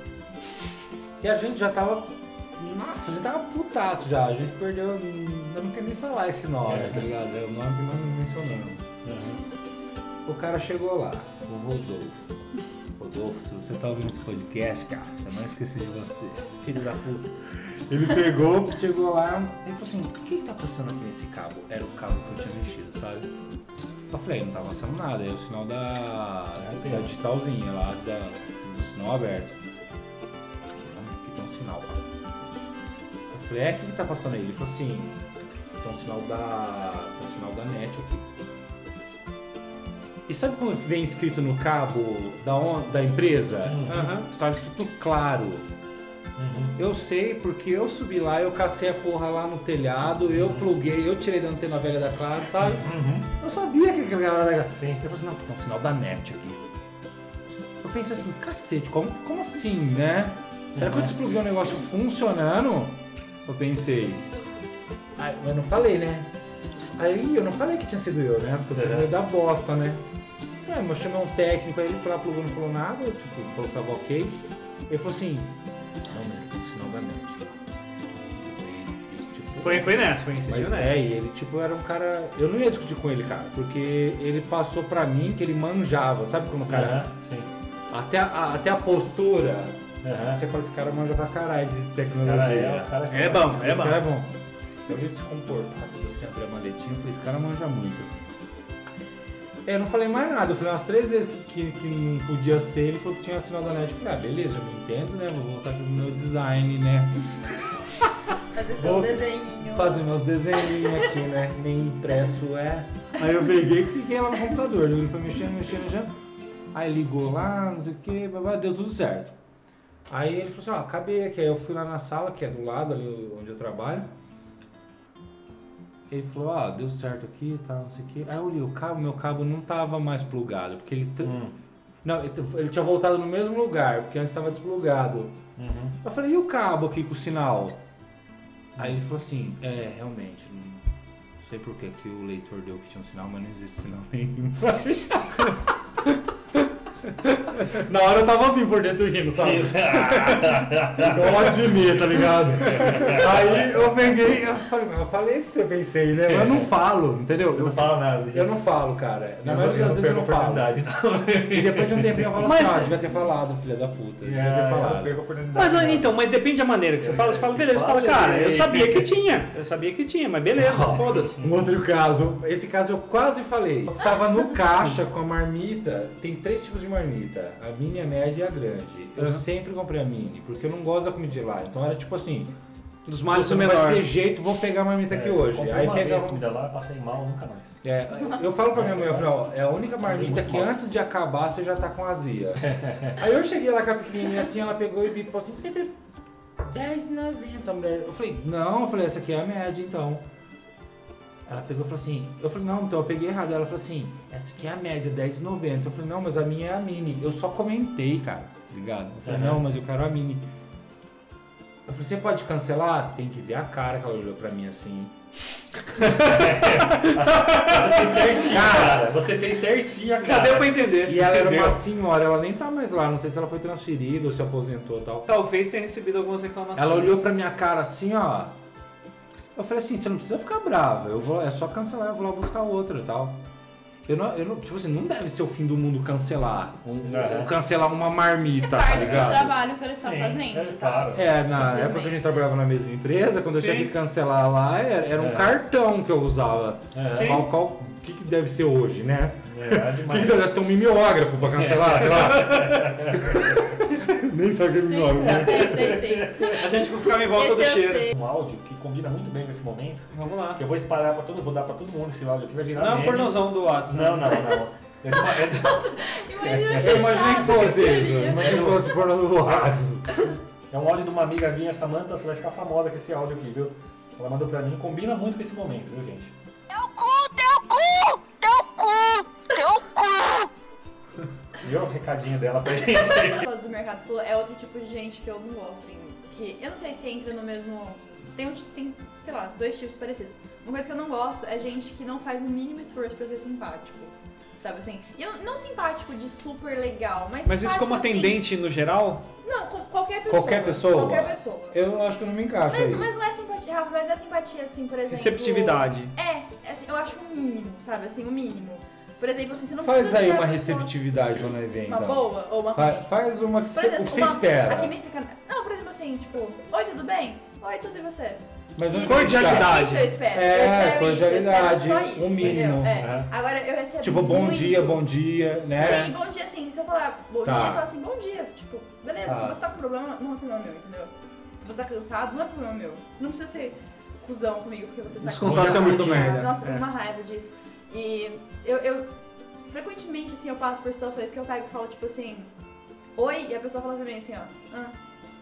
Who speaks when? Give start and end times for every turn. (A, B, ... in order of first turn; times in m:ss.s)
0:01.2-0:08.9 A
0:06.6-0:07.1 B
0:09.0-0:09.4 B
0:10.2-0:12.3 A
0:13.0-0:23.3 A
0:24.1-0:29.6 A
0:26.6-0:27.1 B
0:30.7-0:32.1 A
0:33.3-0:35.2 A
0:35.8-0:38.4 A
0:40.3-0:45.7 A
0:43.6-0:44.1 B
0:43.9-0:44.3 C
0:46.4-0:46.8 B
0:46.8-0:56.6 A
0:50.4-0:50.6 B
0:52.8-0:53.3 B
0:54.7-0:55.0 B
0:57.8-1:04.3 A
1:00.8-1:01.1 B
1:05.2-1:10.0 A
1:08.7-1:09.1 B
1:10.6-1:15.5 A
1:16.1-1:17.5 A
1:18.3-1:27.1 A
1:19.6-1:21.0 C
1:26.7-1:27.5 B
1:27.9-1:34.3 A
1:30.0-1:30.4 B
1:32.2-1:33.7 B
1:33.1-1:34.0 C
1:34.9-1:38.3 A
1:39.6-1:47.2 A
1:48.5-1:50.0 D
1:48.8-1:56.1 A
1:56.7-1:59.3 A
2:00.1-2:04.1 A
2:06.1-2:11.4 A
2:11.2-2:11.5 B
2:12.0-2:15.4 A
2:15.6-2:16.0 B
2:16.0-2:17.8 A
2:18.8-2:20.8 A
2:21.4-2:25.1 A
2:27.7-2:40.9 A
2:29.4-2:33.9 B
2:36.3-2:36.7 B
2:37.4-2:38.5 B
2:39.4-2:42.3 B
2:41.5-2:45.2 A
2:42.4-2:43.0 C
2:44.2-2:46.1 B
2:45.5-2:51.4 C
2:47.0-2:49.1 B
2:50.6-3:02.5 A
2:51.3-2:51.7 B
2:59.2-2:59.4 C
3:03.1-3:04.0 C
3:03.3-3:06.4 A
3:05.1-3:07.7 B
3:07.8-3:15.9 A
3:08.7-3:09.3 B
3:10.0-3:10.7 B
3:12.6-3:13.2 B
3:16.6-3:20.2 A
3:21.4-3:30.5 A
3:29.2-3:29.6 B
3:31.8-3:35.1 A
3:36.1-3:40.8 B
3:37.2-3:38.5 C
3:38.2-3:39.2 A
3:40.2-3:41.8 C
3:41.0-3:45.3 A
3:45.3-3:47.2 C
3:46.8-3:48.5 A
3:49.5-3:53.4 A
3:54.0-3:59.6 A
3:57.0-3:57.5 B
3:58.6-4:02.4 D
4:00.0-4:01.3 B
4:01.1-4:16.0 A
4:03.5-4:03.9 C
4:05.2-4:05.5 B
4:06.9-4:07.4 B
4:07.1-4:07.4 C
4:09.5-4:10.4 B
4:11.5-4:13.7 B
4:12.1-4:12.7 C
4:14.8-4:18.1 D
4:15.1-4:16.6 B
4:16.5-4:18.1 C
4:18.1-4:25.8 B
4:20.1-4:20.6 C
4:22.8-4:24.5 C
4:25.2-4:29.0 D
4:26.4-4:29.8 B
4:26.5-4:30.3 A
4:30.7-4:36.3 B
4:36.7-4:40.5 E
4:41.6-4:43.4 B
4:43.3-4:58.4 D
4:57.4-4:59.3 C
4:59.4-5:01.8 D
5:00.3-5:03.1 A
5:02.7-5:11.0 D
5:05.1-5:06.1 C
5:09.8-5:14.9 A
5:11.8-5:13.1 D
5:13.7-5:25.0 D
5:18.8-5:23.2 A
5:19.0-5:20.1 C
5:22.9-5:23.3 B
5:24.0-5:26.2 A
5:25.8-5:39.1 D
5:27.4-5:27.9 A
5:29.2-5:29.6 A
5:35.2-5:36.8 C
5:35.4-5:36.5 A
5:35.4-5:36.3 B
5:39.7-5:42.5 D
5:43.2-5:44.9 D